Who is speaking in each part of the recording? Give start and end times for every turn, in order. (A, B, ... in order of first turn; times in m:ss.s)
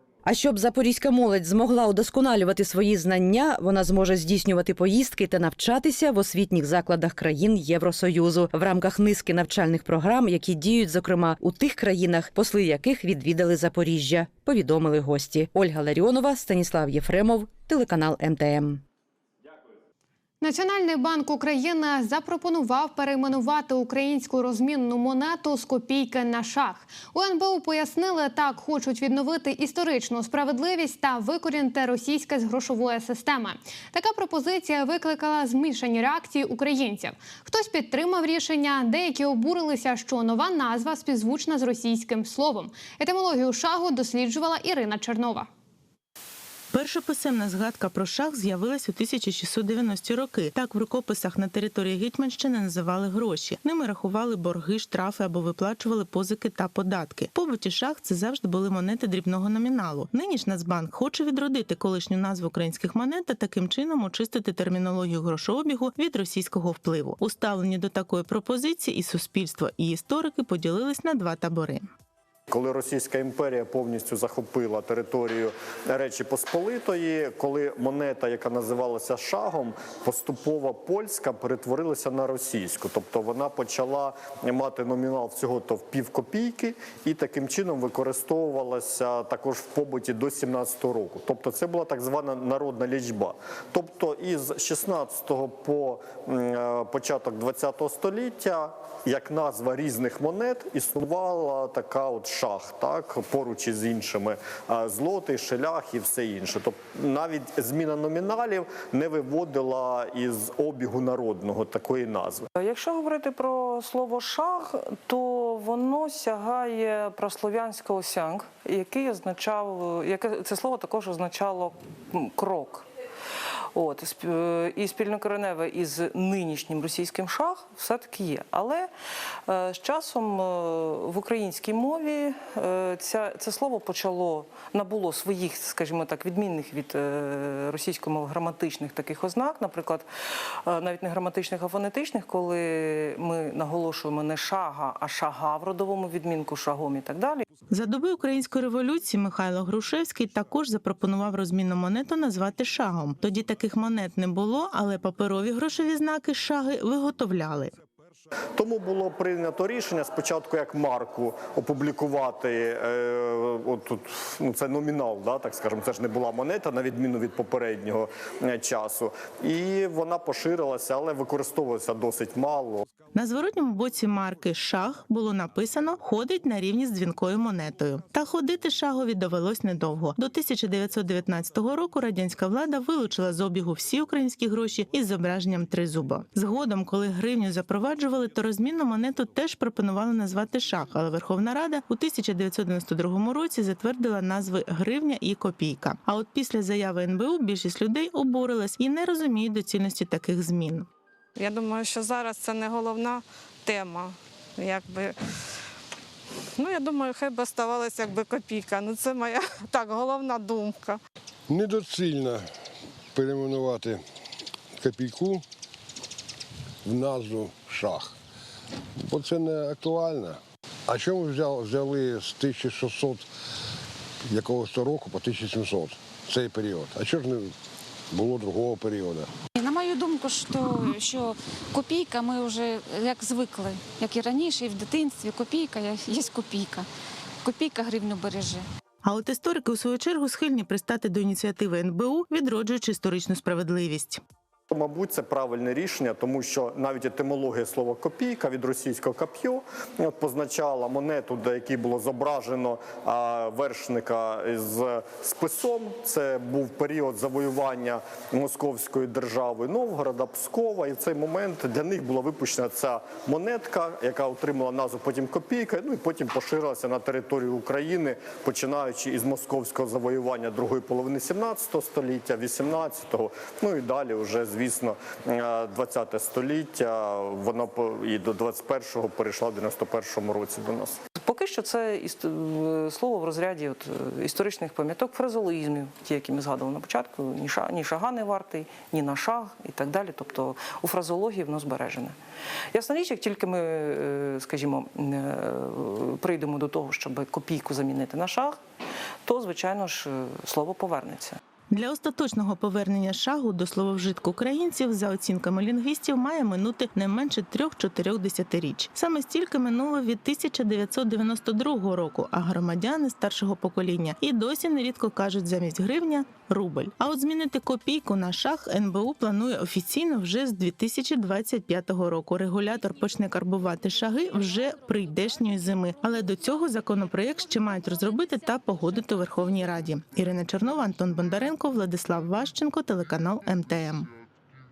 0:00.2-0:18.8 A
0:20.4-0:45.5 B
0:46.7-1:11.8 C
1:12.5-1:52.4 D
1:52.6-2:02.9 E
2:03.7-2:08.9 E
2:09.5-2:20.1 E
2:20.6-2:27.4 E
2:27.7-2:37.7 C
2:38.5-2:52.8 D
2:53.1-3:20.9 C
3:21.4-3:25.2 F
3:26.6-3:31.0 F
3:31.5-3:32.5 G
3:33.1-3:34.0 G
3:34.8-3:35.4 G
3:36.8-3:38.1 G
3:39.0-3:43.3 G
3:44.3-3:47.5 G
3:48.1-3:49.3 G
3:49.6-3:56.8 H
3:57.4-3:58.6 H
3:59.0-4:04.2 C
4:04.7-4:41.0 D
4:41.2-4:52.2 E
4:52.7-4:58.6 E
4:59.2-5:01.4 E
5:01.7-5:34.1 C